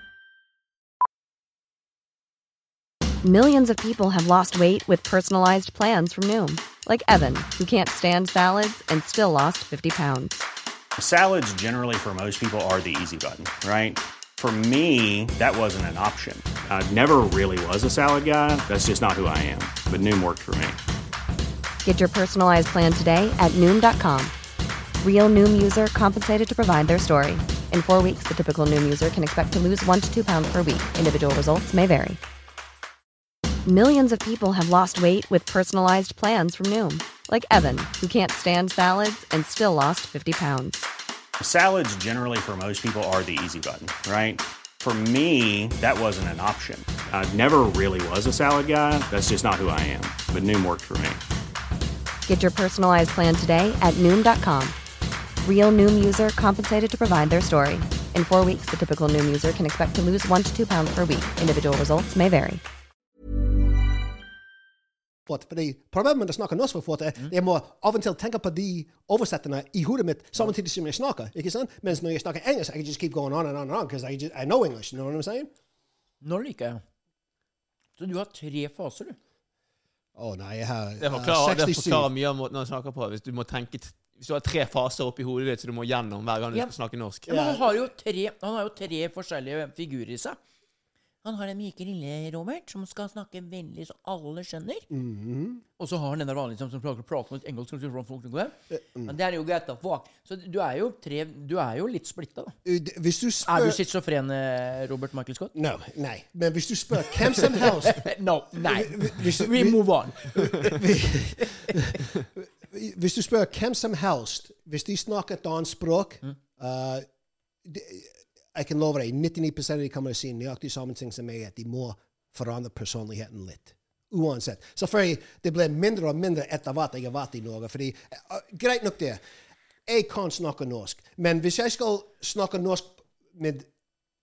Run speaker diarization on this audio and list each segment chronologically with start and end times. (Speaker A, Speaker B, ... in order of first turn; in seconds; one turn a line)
Speaker A: 3.2-10.4
Speaker B: 11.0-20.8
Speaker A: 21.8-24.3
Speaker A: 25.0-32.2
Speaker A: 33.6-40.9
Speaker B: 41.4-51.2
Speaker A: 52.2-54.8
Speaker A: 55.4-62.6
Speaker C: 65.2-75.5
Speaker D: 76.2-76.8
Speaker D: 78.0-79.2
Speaker C: 80.1-82.1
Speaker E: 81.0-87.3
Speaker D: 87.2-90.4
Speaker C: 87.3-87.7
Speaker D: 91.2-94.8
Speaker C: 94.9-95.6
Speaker D: 95.8-102.5
Speaker C: 98.7-99.1
Speaker C: 102.6-103.8
Speaker D: 103.5-105.5
Speaker C: 105.5-117.0
Speaker D: 107.4-110.8
Speaker D: 111.4-112.0
Speaker C: 117.6-129.2
Speaker C: 129.9-133.7